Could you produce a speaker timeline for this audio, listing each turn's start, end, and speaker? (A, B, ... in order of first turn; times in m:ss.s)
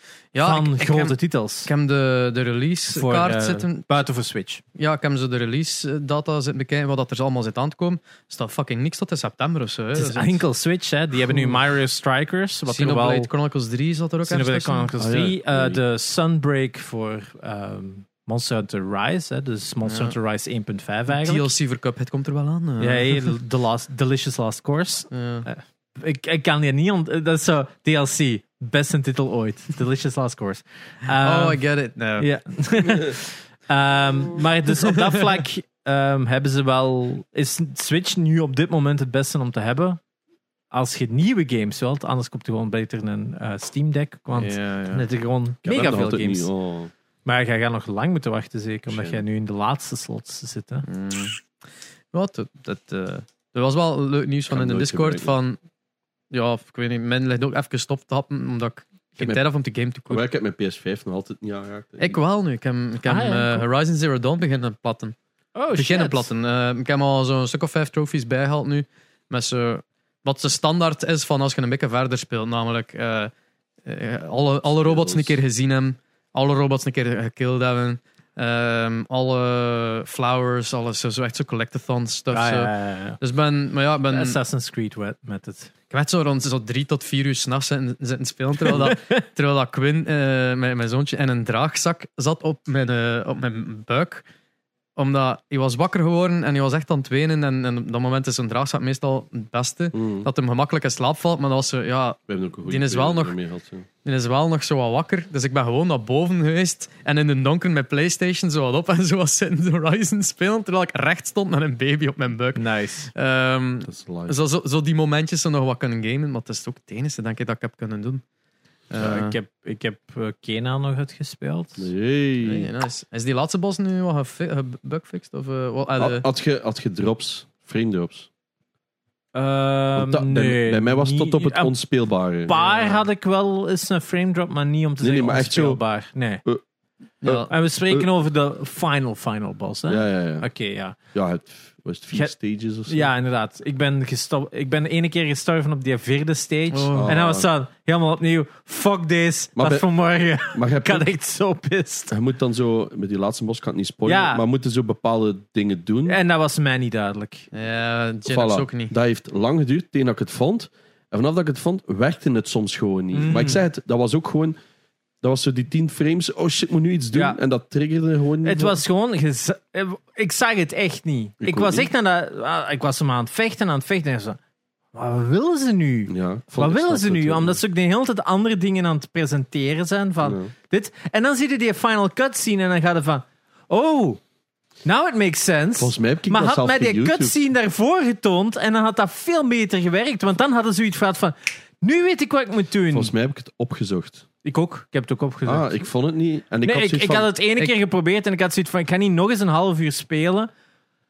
0:00.3-0:04.0 A
0:00.4-0:01.7 B
0:02.9-0:04.6 B
0:04.8-0:10.4 A
0:10.0-0:13.3 B
0:11.3-0:11.6 A
0:12.7-0:14.9 A
0:14.3-0:21.5 B
0:15.0-0:15.8 C
0:19.9-0:20.2 A
0:21.1-0:23.4 A
0:22.8-0:31.6 B
0:25.1-0:25.5 A
0:31.2-0:32.3 A
0:32.2-0:40.0 B
0:35.1-0:35.4 A
0:40.7-0:46.5 B
0:44.4-0:45.0 A
0:45.6-0:46.9 C
0:47.2-0:50.9 B
0:48.9-0:49.2 C
0:50.9-0:51.4 A
0:52.1-0:55.6 A
0:54.5-0:55.4 C
0:56.3-1:00.2 A
1:00.1-1:02.2 C
1:02.0-1:05.2 A
1:03.0-1:03.6 B
1:05.6-1:06.3 B
1:05.8-1:13.3 A
1:13.8-1:24.4 A
1:14.8-1:15.4 C
1:22.3-1:23.2 B
1:24.1-1:25.7 B
1:25.9-1:34.2 A
1:28.6-1:29.2 B
1:35.0-1:43.4 A
1:39.9-1:40.3 C
1:42.3-1:43.9 C
1:44.0-1:58.2 A
1:52.6-1:53.1 B
1:53.9-1:54.4 C
1:58.9-1:59.4 A
1:59.0-2:01.9 B
2:01.8-2:02.7 C
2:02.4-2:06.2 A
2:06.0-2:08.3 C
2:09.3-2:11.7 B
2:10.0-2:12.6 C
2:12.5-2:16.4 B
2:12.6-2:13.0 A
2:15.0-2:15.8 C
2:17.2-2:17.5 A
2:17.2-2:18.1 C
2:17.5-2:21.0 B
2:19.9-2:20.5 C
2:21.1-2:23.1 C
2:22.9-2:32.1 B
2:26.7-2:27.2 A
2:26.9-2:27.5 C
2:29.6-2:29.9 C
2:30.4-2:31.1 C
2:32.1-2:36.2 C
2:34.1-2:34.4 B
2:36.1-2:37.5 B
2:37.5-2:38.9 A
2:38.3-2:44.6 C
2:43.1-2:43.6 B
2:45.2-2:48.8 C
2:47.1-2:47.4 B
2:48.4-2:54.4 B
2:51.4-2:51.9 C
2:54.9-3:04.2 B
2:56.1-2:57.6 C
3:00.2-3:00.5 C
3:04.8-3:13.1 B
3:05.8-3:07.4 C
3:12.9-3:14.2 C
3:14.4-3:15.8 B
3:15.5-3:17.3 C
3:16.6-3:20.5 B